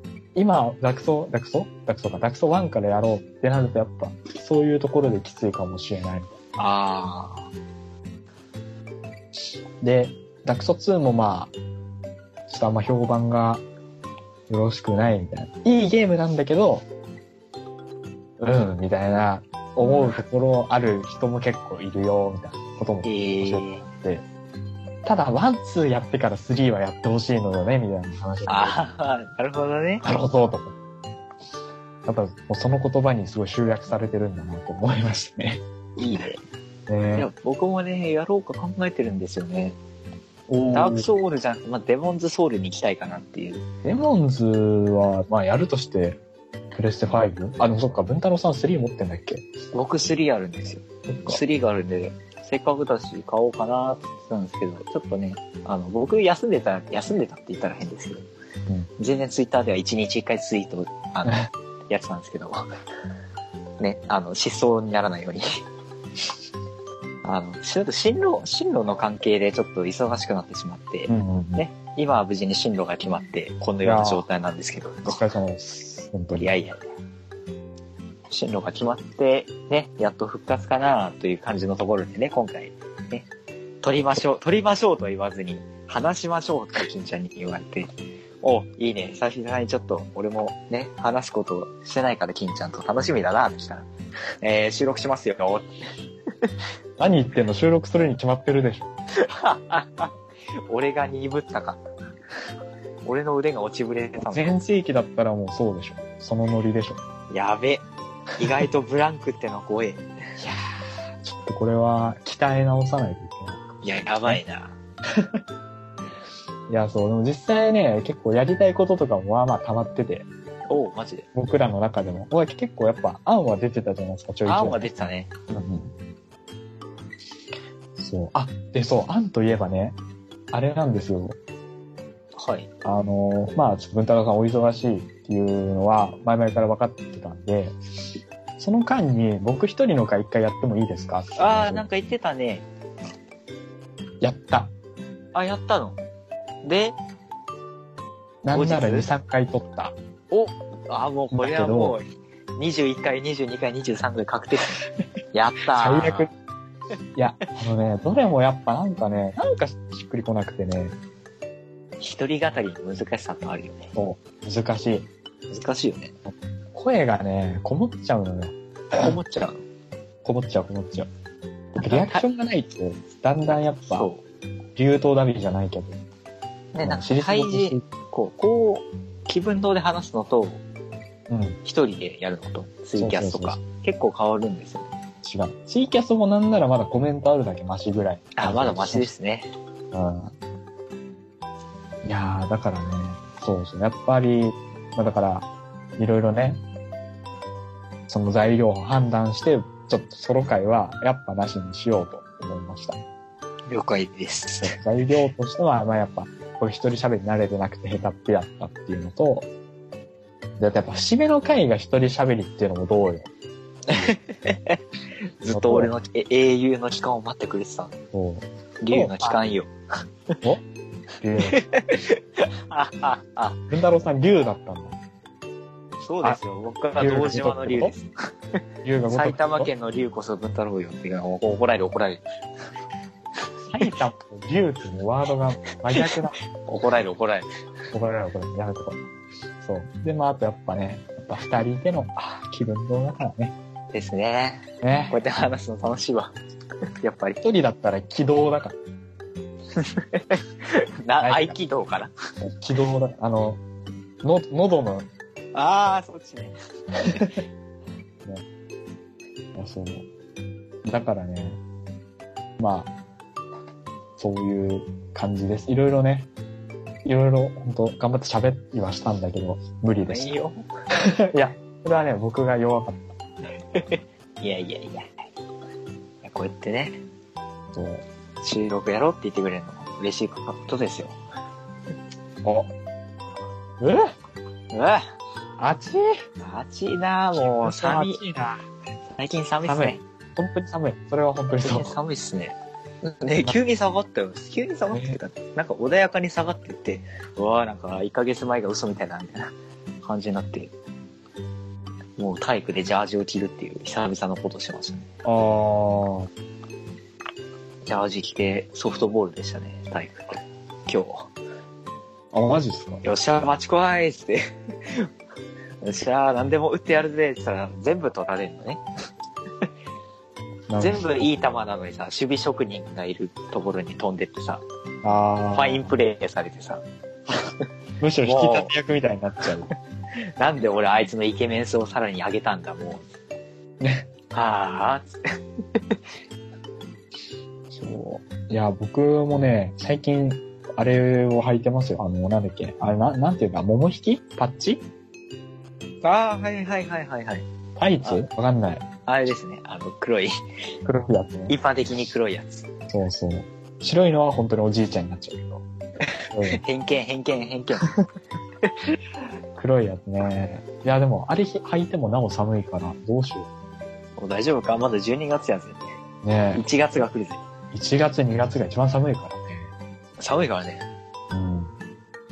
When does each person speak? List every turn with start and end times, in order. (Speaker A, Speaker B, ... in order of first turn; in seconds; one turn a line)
Speaker A: 0.3-6.3
Speaker B: 6.6-7.5
Speaker A: 9.8-11.5
Speaker A: 12.5-13.6
Speaker A: 14.5-16.9
Speaker A: 18.4-24.2
Speaker B: 19.8-20.2
Speaker B: 23.0-23.8
Speaker A: 25.0-28.8
Speaker B: 28.5-30.0
Speaker A: 30.0-30.7
Speaker A: 32.0-35.6
Speaker B: 36.0-36.4
Speaker A: 36.9-37.3
Speaker B: 37.1-39.8
Speaker A: 40.5-41.1
Speaker B: 40.7-43.6
Speaker A: 43.8-46.2
Speaker A: 46.7-49.4
Speaker B: 49.7-58.3
Speaker A: 51.1-51.4
Speaker B: 59.0-62.6
Speaker B: 63.8-65.6
Speaker B: 67.2-75.2
Speaker A: 71.1-71.6
Speaker A: 73.8-74.2
Speaker A: 75.0-76.5
Speaker B: 76.4-76.8
Speaker B: 78.3-83.3
Speaker B: 83.8-93.9
Speaker B: 94.4-95.8
Speaker A: 97.0-98.9
Speaker B: 99.2-100.1
Speaker B: 100.7-101.8
Speaker B: 103.0-104.5
Speaker A: 104.2-107.0
Speaker B: 107.3-107.8
Speaker B: 108.4-110.0
Speaker A: 110.4-114.4
Speaker B: 113.8-114.8
Speaker A: 115.1-115.4
Speaker A: 116.7-120.3
Speaker B: 120.7-121.2
Speaker A: 121.3-124.8
Speaker B: 124.5-125.3
Speaker A: 125.5-125.9
Speaker A: 128.0-130.0
Speaker A: 130.5-131.4
Speaker B: 132.3-132.7
Speaker A: 132.8-137.8
Speaker A: 138.6-141.8
Speaker B: 141.4-142.7
Speaker A: 144.2-144.7
Speaker B: 145.3-146.0
Speaker B: 146.6-147.0
Speaker A: 148.4-149.9
Speaker B: 148.5-149.1
Speaker B: 150.3-154.8
Speaker A: 151.3-152.0
Speaker B: 155.3-156.3
Speaker A: 155.7-156.3
Speaker A: 157.2-160.9
Speaker B: 162.0-163.9
Speaker A: 163.9-165.1
Speaker B: 165.5-166.1
Speaker A: 166.7-169.1
Speaker B: 168.9-169.6
Speaker A: 170.2-171.1
Speaker B: 171.8-172.3
Speaker A: 171.8-174.1
Speaker B: 173.9-174.2
Speaker A: 174.8-176.0
Speaker B: 176.7-180.6
Speaker A: 176.8-177.8
Speaker A: 181.3-181.6
Speaker B: 181.6-184.9
Speaker A: 183.0-183.6
Speaker A: 185.2-189.1
Speaker B: 188.3-189.5
Speaker A: 189.9-190.3
Speaker A: 192.0-196.6
Speaker A: 198.1-203.0
Speaker B: 203.7-204.7
Speaker A: 204.6-209.5
Speaker A: 210.6-213.3
Speaker B: 213.9-214.8
Speaker B: 215.4-217.9
Speaker A: 215.5-215.9
Speaker A: 218.1-219.4
Speaker B: 218.8-219.7
Speaker A: 221.2-221.6
Speaker B: 221.4-223.7
Speaker A: 223.7-224.9
Speaker B: 226.1-228.1
Speaker A: 227.0-227.9
Speaker A: 228.8-229.7
Speaker B: 229.1-232.2
Speaker A: 233.7-236.3
Speaker B: 235.9-237.4
Speaker A: 237.9-239.0
Speaker A: 239.6-243.5
Speaker B: 243.9-246.3
Speaker A: 244.8-245.2
Speaker B: 247.0-247.4
Speaker A: 247.4-248.8
Speaker B: 249.8-252.1
Speaker A: 251.2-251.6
Speaker A: 252.4-253.6
Speaker A: 254.2-255.1
Speaker B: 255.5-256.6
Speaker A: 257.1-257.4
Speaker A: 259.5-260.1
Speaker A: 260.9-261.6
Speaker A: 262.6-262.9
Speaker A: 264.2-266.3
Speaker A: 267.0-270.3
Speaker B: 270.0-270.6
Speaker A: 270.9-273.1
Speaker B: 273.7-275.1
Speaker B: 276.2-277.0
Speaker A: 277.7-278.0
Speaker B: 278.4-281.2
Speaker A: 282.4-282.7
Speaker A: 283.8-284.1
Speaker B: 284.7-285.0
Speaker A: 285.6-286.2
Speaker B: 286.4-288.2
Speaker A: 287.4-288.6
Speaker B: 289.2-290.0
Speaker A: 289.6-291.9
Speaker B: 291.6-299.5
Speaker A: 294.9-295.2
Speaker B: 300.0-300.7
Speaker B: 302.2-305.1
Speaker A: 305.2-306.3
Speaker B: 307.8-311.3
Speaker A: 312.3-313.0
Speaker B: 313.0-315.1
Speaker B: 315.8-318.8
Speaker A: 320.7-321.3
Speaker B: 320.8-324.6
Speaker A: 325.0-325.9
Speaker B: 325.5-327.5
Speaker A: 328.0-329.7
Speaker B: 328.2-328.7
Speaker B: 330.4-333.0
Speaker A: 333.8-334.1
Speaker B: 334.3-335.2
Speaker A: 337.7-344.8
Speaker B: 346.0-347.4
Speaker A: 347.8-348.8
Speaker B: 349.1-350.3
Speaker A: 350.8-351.6
Speaker B: 351.5-352.6
Speaker A: 352.9-355.6
Speaker B: 356.2-357.9
Speaker A: 356.3-356.6
Speaker A: 359.6-363.5
Speaker B: 364.2-365.9
Speaker A: 366.2-367.1
Speaker B: 366.5-367.4
Speaker A: 367.7-369.7
Speaker B: 370.2-370.9
Speaker A: 371.3-371.7